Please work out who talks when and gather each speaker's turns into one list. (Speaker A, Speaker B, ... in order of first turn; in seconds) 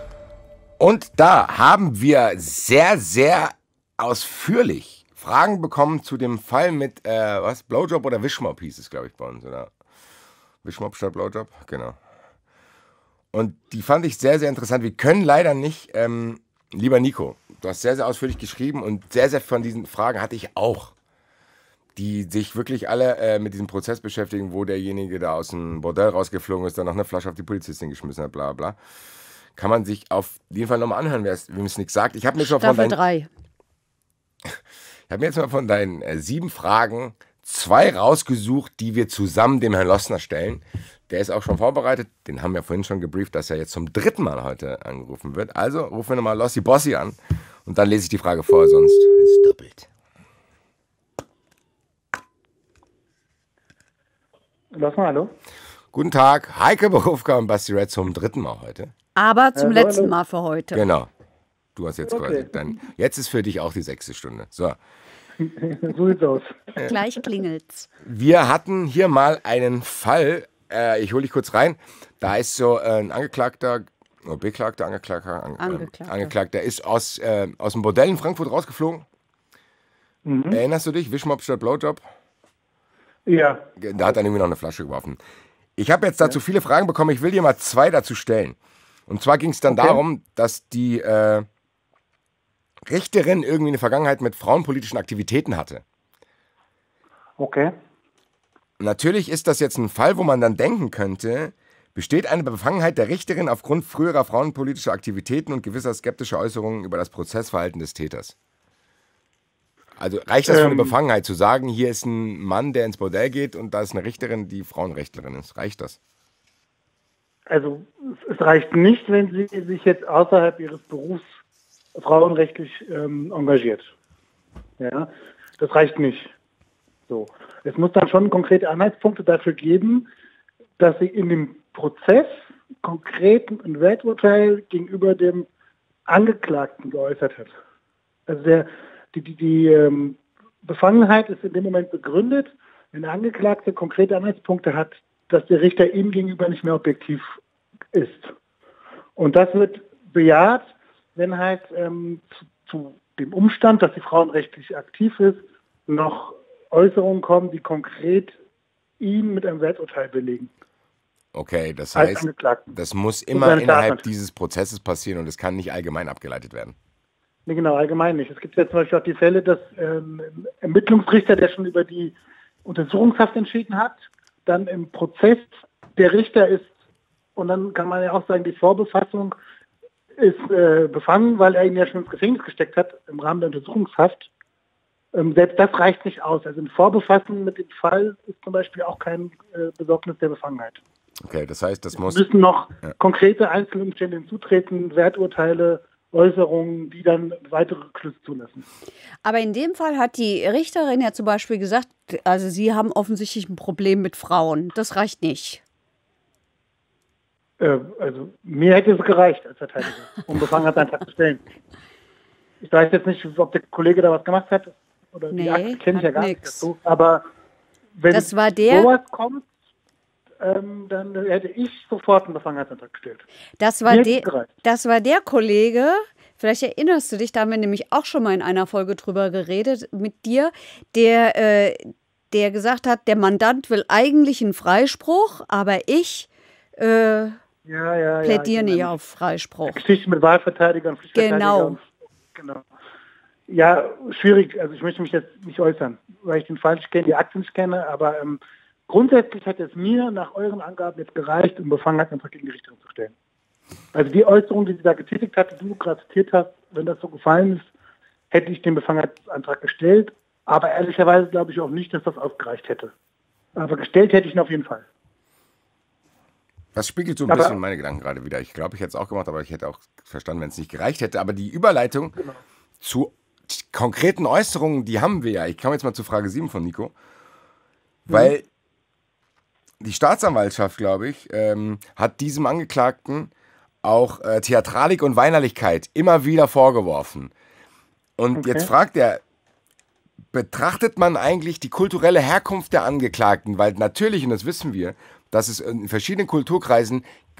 Speaker A: 0.8-9.7, 10.6-12.0, 13.3-20.9, 21.9-28.8, 29.6-33.0, 35.1-49.9, 55.9-58.9, 60.7-61.1, 61.8-64.8, 68.0-79.0, 80.5-82.0, 83.8-85.2, 85.8-88.6, 89.1-91.5, 92.8-95.8, 98.8-108.3, 110.0-116.0, 161.3-166.8, 191.2-192.2, 266.7-272.2, 272.8-276.9, 278.1-278.4, 279.8-283.3, 283.8-287.3, 288.2-289.2, 290.3-297.0
Speaker B: 32.4-33.3, 59.1-60.9, 66.8-67.9, 75.6-76.3, 199.2-205.6, 215.3-216.7, 218.1-218.9, 223.6-237.4, 238.2-239.8, 241.1-241.8
Speaker C: 54.7-55.3, 59.5-60.1, 62.1-62.5, 65.4-66.6, 80.2-80.6, 83.3-83.6, 89.7-90.0, 97.4-97.7, 110.5-110.9, 117.5-121.2, 121.9-123.9, 124.8-126.3, 127.1-130.1, 130.8-135.5, 136.1-137.5, 138.3-147.2, 147.9-148.3, 149.2-158.3, 159.0-160.5, 161.9-162.7, 163.3-164.0, 167.5-176.7, 177.3-179.3, 180.2-184.3, 185.1-190.8, 192.0-198.6, 207.6-211.4, 212.6-217.2, 218.0-219.5, 220.4-223.2, 223.8-224.5, 237.7-238.9, 239.7-242.6, 243.5-253.1, 253.9-257.7, 258.3-262.9, 263.6-264.9, 267.3-267.6, 288.4-288.7